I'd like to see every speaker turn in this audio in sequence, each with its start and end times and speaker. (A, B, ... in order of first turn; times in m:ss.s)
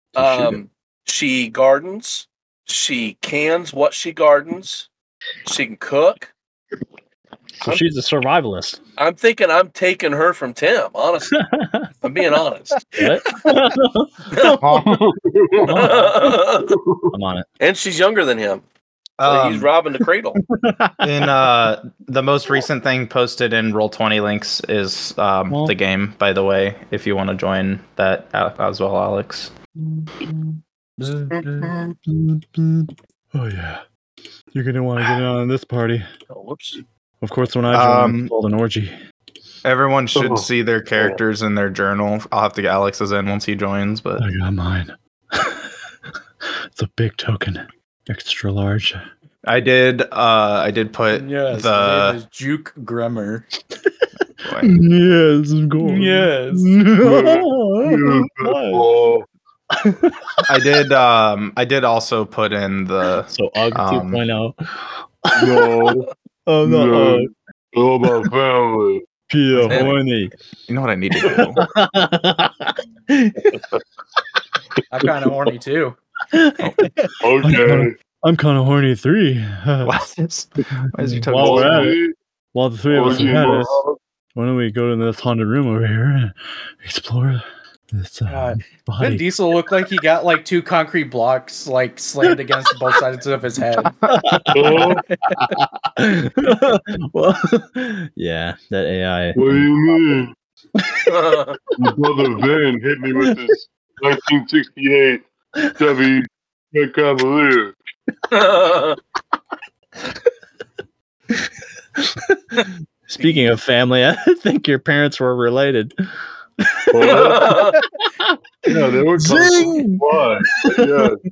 0:00.1-0:00.6 A
0:00.1-0:04.9 B
0:05.4-0:06.3 B
0:07.6-0:08.8 A
0:09.0-0:11.4 B
0:11.3-0:11.9 A
0:12.0-0:13.1 B
0:12.9-0:14.1 A
0:14.3-0:14.7 B
0:14.6-0:15.0 C
0:14.8-0:16.0 D
0:15.7-0:16.7 B
0:16.7-0:17.1 D
0:17.1-0:17.4 A
0:17.6-0:18.6 B
0:19.2-0:19.7 C
0:19.2-0:20.4 B
0:20.6-0:21.0 A
0:21.0-0:29.5 C
0:31.0-0:31.7 E
0:32.0-0:33.8 F
0:34.5-0:36.1 F
0:36.3-0:36.8 B
0:37.2-0:39.0 F
0:37.7-0:38.3 C
0:39.6-0:44.3 C
0:40.1-0:41.2 D
0:44.2-0:45.7 F
0:46.7-0:49.0 F
0:49.4-0:52.2 C
0:51.1-0:53.5 E
0:54.4-0:54.8 C
0:54.6-0:58.9 F
0:55.8-0:56.8 E
0:57.0-0:59.3 D
1:00.4-1:04.2 C
1:03.3-1:04.6 A
1:05.3-1:05.7 A
1:05.4-1:06.1 D
1:06.5-1:07.3 F
1:06.6-1:09.0 D
1:09.3-1:10.3 F
1:09.7-1:10.0 B
1:10.7-1:11.7 C
1:11.6-1:13.5 A
1:14.9-1:16.0 E
1:15.0-1:15.3 D
1:16.6-1:17.1 E
1:17.2-1:17.9 D
1:17.4-1:20.0 F
1:19.8-1:21.9 C
1:21.0-1:22.0 F
1:21.3-1:22.1 D
1:22.5-1:23.8 F
1:22.9-1:24.0 D
1:24.3-1:29.2 F
1:28.3-1:33.9 E
1:34.1-1:34.8 A
1:34.5-1:35.1 D
1:35.1-1:35.5 E
1:35.4-1:39.7 A
1:39.3-1:40.3 D
1:40.8-1:41.1 A
1:41.1-1:41.6 B
1:41.7-1:45.2 D
1:45.8-1:47.7 D
1:48.3-1:49.0 B
1:52.0-1:52.4 A
1:53.1-1:56.0 A
1:53.2-1:53.5 B
1:56.7-1:57.3 A
1:56.9-1:57.6 D
1:57.0-1:57.8 B
1:58.6-2:01.2 D
1:59.2-2:00.0 A
1:59.2-1:59.7 F
2:00.6-2:01.0 A